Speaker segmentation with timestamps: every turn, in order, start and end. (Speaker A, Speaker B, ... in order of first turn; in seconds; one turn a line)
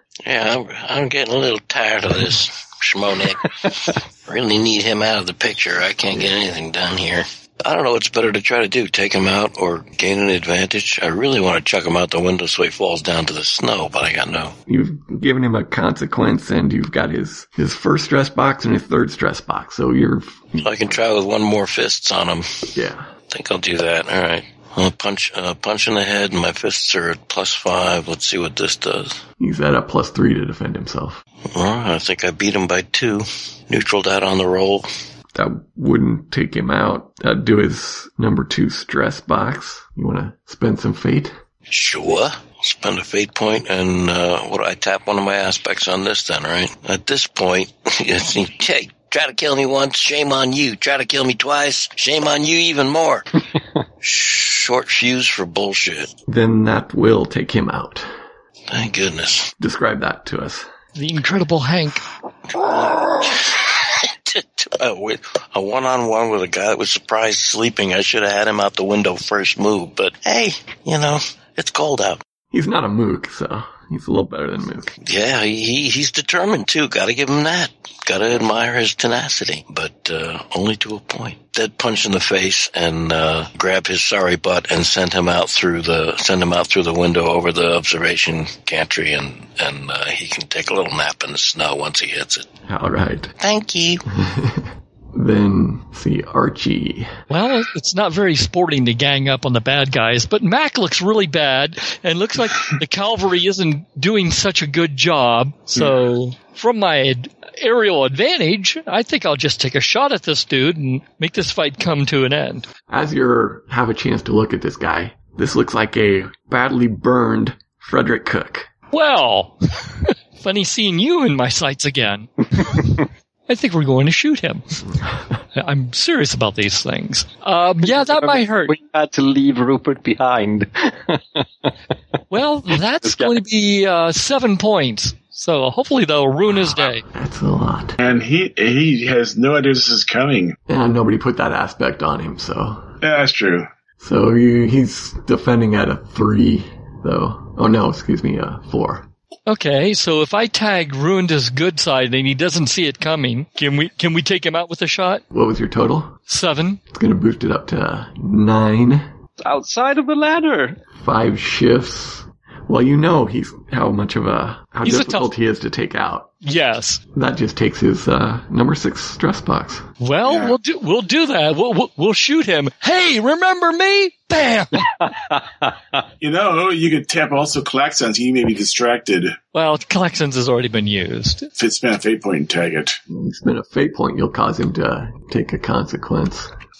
Speaker A: 0.2-14.6
Speaker B: 14.7-21.0
Speaker A: 20.6-22.7
Speaker B: 22.7-23.1
Speaker A: 23.3-29.2
Speaker B: 29.4-31.2
Speaker A: 31.5-34.9
Speaker B: 35.3-41.4
Speaker A: 41.7-53.3
Speaker A: 54.0-56.1
Speaker B: 56.3-58.1
Speaker A: 58.7-59.5
Speaker B: 59.6-60.7
Speaker C: 61.0-62.0
Speaker A: 62.5-72.2
Speaker B: 72.5-75.0
Speaker A: 75.0-92.5
Speaker B: 92.7-93.3
Speaker A: 93.4-94.0
Speaker B: 94.2-97.1
Speaker C: 97.3-112.7
Speaker B: 112.9-118.7
Speaker C: 118.9-124.6
Speaker C: 125.5-128.8
Speaker D: 127.8-131.7
Speaker C: 132.3-137.1
Speaker D: 133.0-133.4
Speaker B: 136.7-138.0
Speaker E: 138.0-140.6
Speaker B: 140.7-142.9
Speaker E: 143.0-143.7
Speaker B: 144.0-149.1
Speaker C: 149.5-155.2
Speaker B: 155.3-156.2
Speaker C: 156.3-156.8
Speaker B: 156.9-159.1
Speaker D: 159.4-160.8
Speaker B: 161.0-166.3
Speaker C: 164.8-165.3
Speaker C: 166.4-167.0
Speaker B: 167.1-169.8
Speaker C: 170.0-174.9
Speaker E: 170.2-170.6
Speaker D: 175.0-176.0
Speaker E: 176.2-179.4
Speaker C: 179.5-181.5
Speaker E: 181.6-183.0
Speaker B: 183.1-186.5